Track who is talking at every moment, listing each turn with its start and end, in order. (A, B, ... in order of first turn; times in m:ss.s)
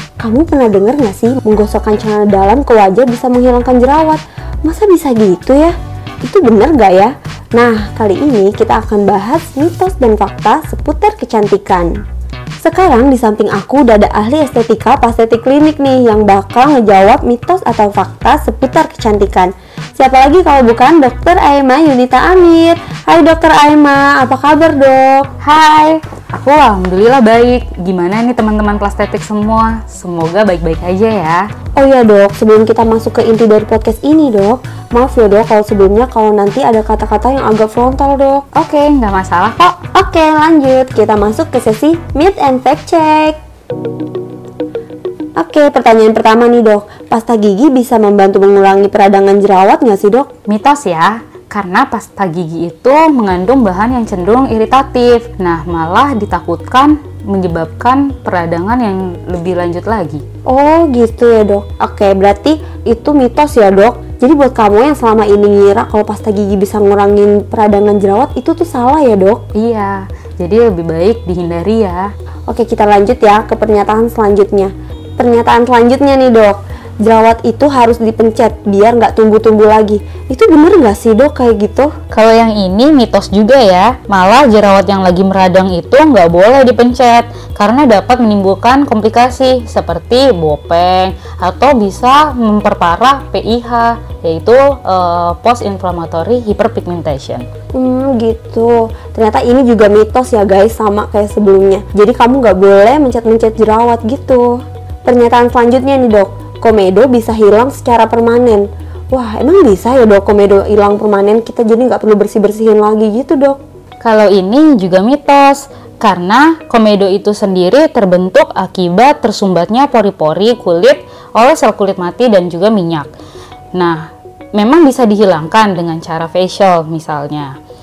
0:00.2-0:12.0 A
0:12.6-0:25.3 A
0:25.4-0:31.5 B
0:31.8-0:38.5 A
0:38.6-0:39.8 B
0:39.9-0:43.4 A
0:45.4-0:50.3 A
0:50.5-1:00.2 B
1:00.5-1:09.4 A
1:09.5-1:12.1 B
1:12.5-1:21.9 A
1:22.1-1:37.5 B
1:37.7-1:53.6 A
1:54.0-2:03.1 B
2:03.7-2:07.5 B